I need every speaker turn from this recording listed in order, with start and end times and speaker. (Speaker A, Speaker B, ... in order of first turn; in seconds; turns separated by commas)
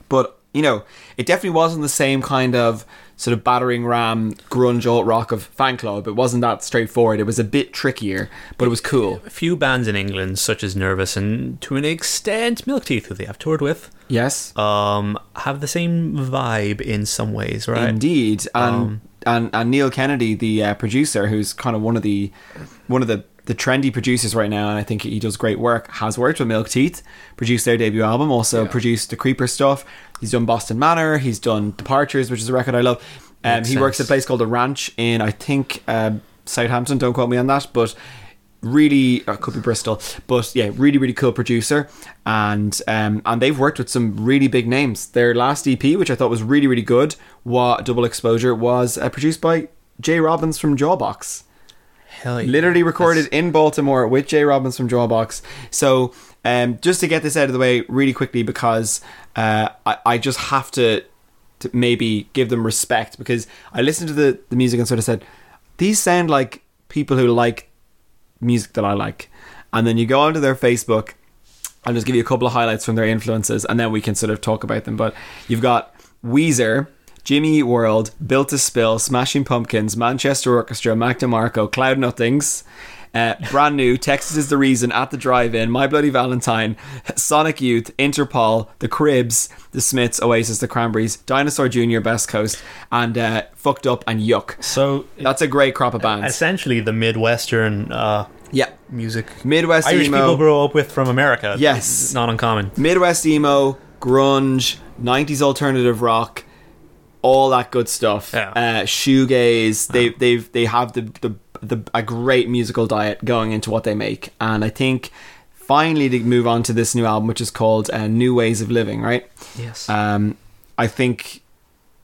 Speaker A: 0.1-9.2, Speaker B: 8.6-13.9, Speaker A: 14.1-14.5, Speaker B: 14.5-18.0, Speaker A: 17.7-22.3, Speaker B: 18.6-19.0, Speaker A: 22.9-37.9, Speaker B: 33.5-34.1, Speaker A: 38.6-51.4, Speaker B: 52.1-53.2, Speaker A: 52.4-61.0, Speaker A: 61.6-65.2, Speaker A: 65.8-67.7, Speaker A: 68.4-71.2, Speaker A: 71.8-94.7, Speaker B: 94.6-95.3, Speaker A: 95.2-96.4, Speaker B: 96.0-98.3, Speaker B: 98.8-102.7, Speaker A: 99.4-100.4, Speaker A: 101.5-102.1, Speaker A: 102.8-106.4, Speaker A: 107.2-119.3, Speaker B: 119.5-119.9, Speaker A: 119.9-121.4